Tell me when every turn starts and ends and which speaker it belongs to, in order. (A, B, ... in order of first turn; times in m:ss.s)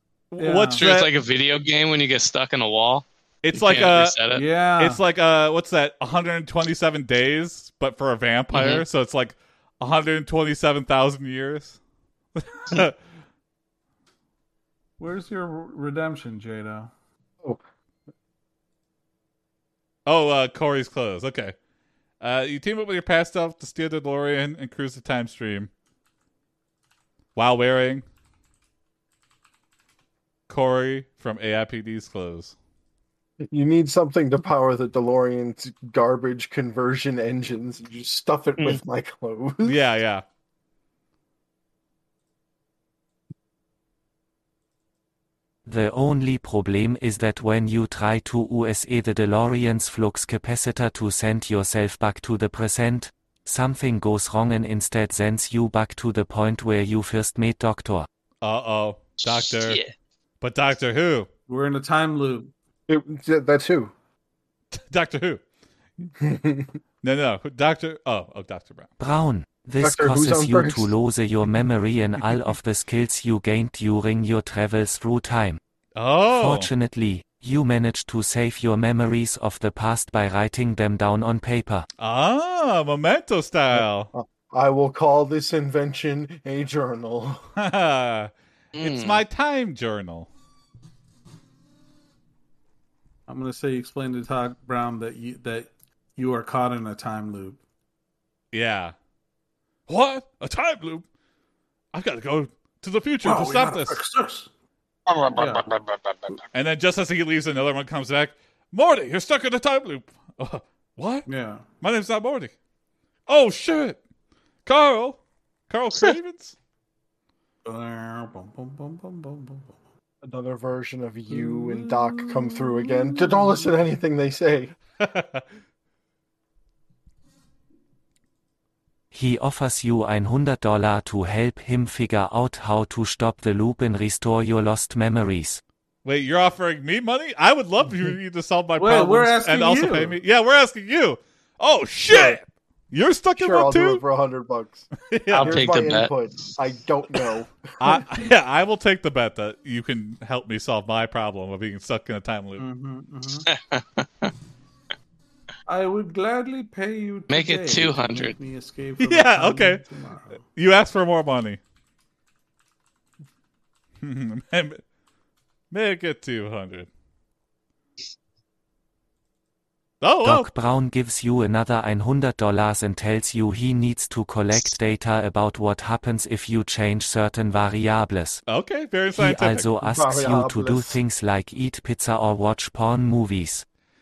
0:00.3-0:01.1 A
0:00.4-0:00.8 B
0:00.8-0:04.4 C
0:03.4-0:04.2 A
0:04.3-0:05.0 B
0:04.8-0:11.8 A
0:08.5-0:08.8 C
0:12.4-0:12.9 A
0:15.0-0:16.9 B
0:20.0-0:21.5 A
0:22.2-0:25.7 A
0:27.4-0:28.0 A
0:30.5-0:32.6 A
0:33.4-0:39.8 D
0:39.6-0:40.2 A
0:45.6-0:58.1 E
0:58.4-0:59.8 A
0:59.2-0:59.9 C
1:00.4-1:01.3 A
1:01.5-1:02.5 B
1:02.9-1:03.9 D
1:04.7-1:05.4 A
1:06.1-1:06.7 D
1:07.0-1:08.9 A
1:09.0-1:15.6 E
1:09.8-1:10.9 D
1:16.0-1:16.7 A
1:16.3-1:21.9 E
1:22.0-1:24.1 A
1:23.7-1:27.4 D
1:27.6-1:30.3 A
1:28.7-1:29.2 C
1:33.3-1:37.6 B
1:38.5-1:38.9 A
1:39.9-1:41.0 A
1:41.9-1:44.0 A
1:43.2-1:44.5 B
1:45.1-1:46.4 C
1:45.3-1:45.7 B
1:46.5-1:51.3 A
1:51.3-1:51.6 B
1:51.8-1:52.5 A
1:53.3-1:54.0 A
1:54.6-1:56.6 A
1:57.6-1:59.7 B
2:00.2-2:04.7 D
2:01.3-2:03.7 B
2:05.0-2:05.4 A
2:09.1-2:15.6 E
2:16.0-2:24.0 A
2:18.8-2:20.2 B
2:22.1-2:22.4 D
2:23.4-2:28.0 D
2:25.1-2:25.9 A
2:25.3-2:26.1 C
2:27.8-2:32.6 A
2:32.6-2:33.4 B
2:33.4-2:34.3 C
2:35.6-2:40.4 B
2:37.3-2:38.4 C
2:39.0-2:39.8 A
2:40.5-2:41.6 A
2:44.0-2:44.8 A
2:45.7-2:46.9 A
2:50.0-2:50.5 A
2:50.2-2:58.4 E
2:58.5-2:59.7 A
2:59.1-3:03.6 E
2:59.8-3:01.0 D